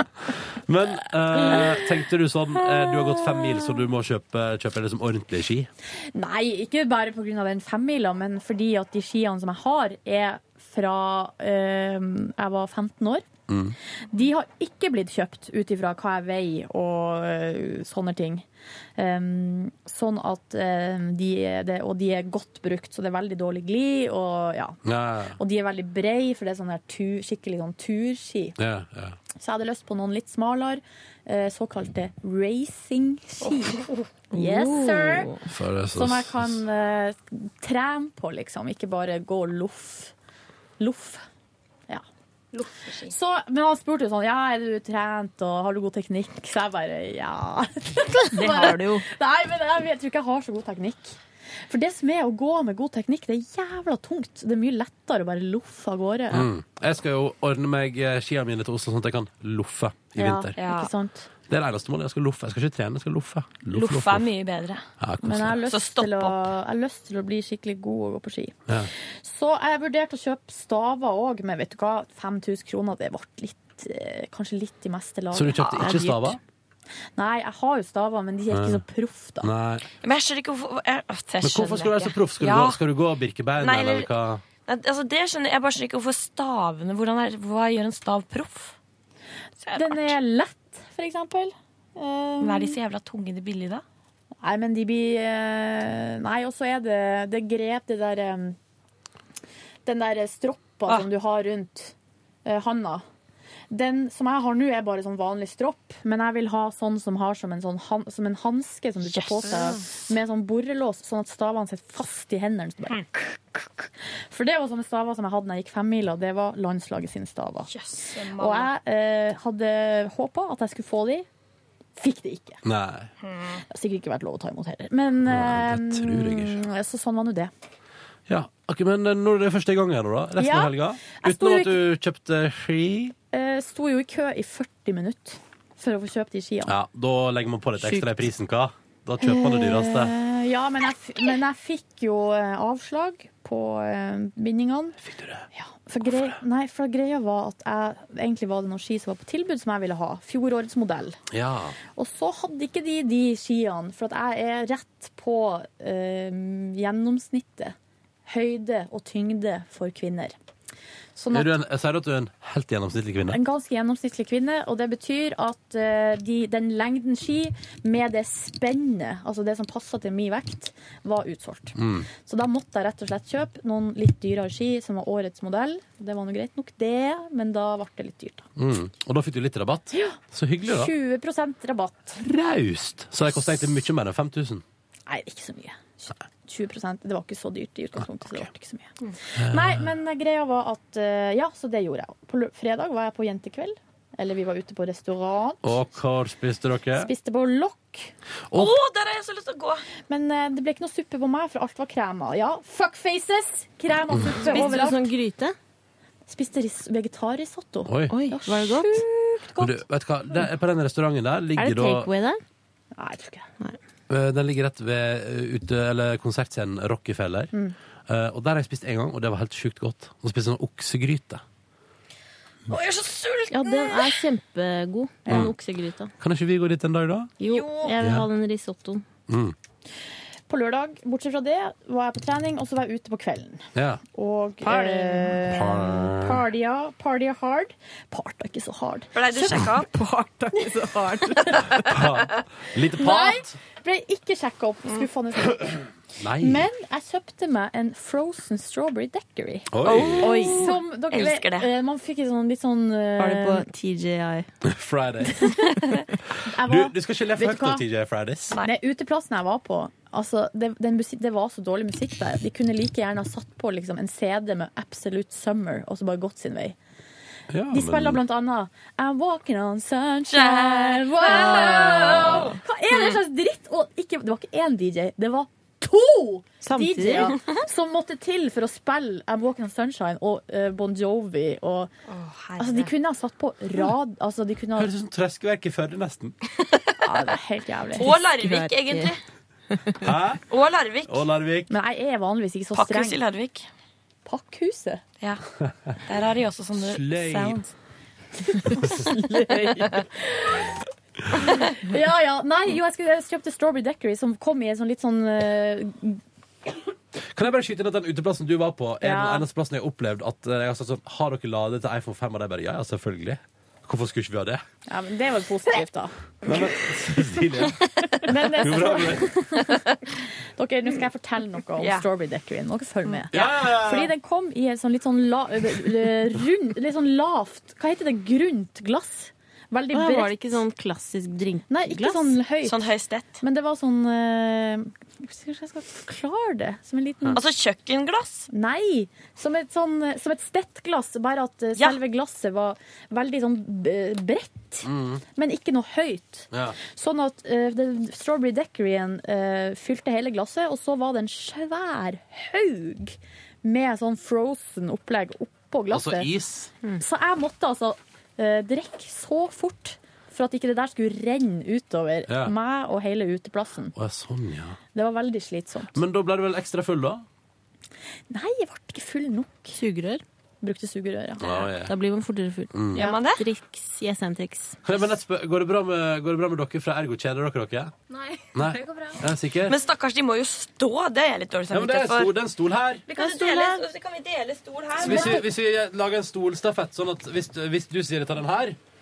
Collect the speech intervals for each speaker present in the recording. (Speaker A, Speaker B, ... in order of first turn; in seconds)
Speaker A: 0.7-5.7, 13.5-13.8, 24.9-25.4, 28.6-29.2, 35.5-36.6, 56.3-60.6, 61.5-64.3, 65.0-65.6, 75.3-76.4, 78.5-78.8, 79.4-79.9, 81.4-84.4, 122.6-123.1, 125.3-126.6, 128.3-133.2, 136.7-140.1, 145.0-145.4, 151.3-151.8, 161.3-163.4, 171.8-172.1, 178.6-180.9, 182.2-184.6, 188.0-188.5, 189.3-189.9, 195.6-197.1, 198.5-198.8, 207.9-208.1, 209.6-212.1, 214.1-217.5, 218.1-221.4, 225.3-225.5, 226.2-227.3, 228.0-228.3, 229.3-229.6, 233.8-234.0, 234.7-236.4, 241.7-243.6, 246.2-246.7, 249.7-250.5, 254.7-255.5, 256.6-258.6, 267.5-268.2, 284.8-286.4, 290.0-290.4, 291.1-291.7, 296.8-297.7, 307.4-314.6, 316.4-317.8, 318.6-319.3, 323.3-324.1, 344.8-345.2, 346.5-346.8, 355.9-356.7, 362.3-362.5, 363.9-364.8, 365.9-367.2, 371.4-371.9, 372.7-373.1, 374.9-377.9, 378.5-379.8, 381.7-383.1, 385.0-388.8
Speaker B: 6.2-13.3, 14.1-18.5, 19.0-24.8, 25.4-28.6, 29.4-35.4, 36.0-40.1, 40.8-41.2, 43.1-56.5, 60.2-61.3, 65.2-75.7, 77.2-79.5, 89.7-92.8, 94.4-98.6, 99.8-101.9, 102.5-103.0, 103.7-117.7, 118.3-121.3, 122.0-122.6, 123.7-127.5, 130.4-131.8, 133.3-136.7, 139.2-145.0, 145.5-151.2, 152.0-160.4, 161.2-161.5, 163.3-178.5, 180.7-182.2, 185.1-195.9, 197.0-198.1, 200.1-205.1, 206.3-209.8, 212.9-213.4, 230.5-233.6, 234.1-239.8, 240.6-241.7, 243.0-245.8, 246.4-249.7, 250.2-253.7, 255.5-257.9, 258.5-266.8, 267.7-281.9, 282.6-284.9, 287.0-288.1, 291.7-293.2, 294.2-295.0, 298.7-299.9, 301.7-306.2, 309.0-309.4, 314.9-316.1, 318.3-319.8, 320.6-330.6, 331.7-332.9, 333.4-337.4, 338.5-356.3, 357.0-363.9, 364.9-366.0, 368.3-369.8, 370.6-371.6, 385.1-385.4
Speaker C: 33.4-34.1, 42.5-43.1, 60.6-60.9, 63.7-64.9, 65.6-66.5, 75.6-76.0, 80.0-82.8, 83.6-84.1, 84.7-88.7, 89.6-90.1, 92.4-93.8, 109.0-109.9, 117.7-118.7, 123.2-123.6, 198.6-199.8, 222.7-224.2, 227.4-228.0, 239.1-239.9, 249.8-251.7, 270.3-273.0, 282.1-282.9, 288.0-289.2, 290.5-291.2, 292.7-293.7, 296.1-297.6, 321.8-322.0, 332.6-333.4, 337.3-338.5, 373.0-373.4, 379.7-382.3, 383.1-385.4
Speaker D: 34.3-35.4, 48.4-49.0, 75.8-76.4, 137.8-138.1, 204.3-205.6, 208.1-209.1, 211.6-212.4, 223.5-226.1, 227.4-229.1, 234.7-235.2, 239.9-241.4, 250.2-250.7, 253.2-254.5, 271.3-272.5, 276.6-277.4, 288.0-289.1, 289.7-290.0, 329.9-332.4, 369.7-370.2, 371.8-374.8, 383.1-383.9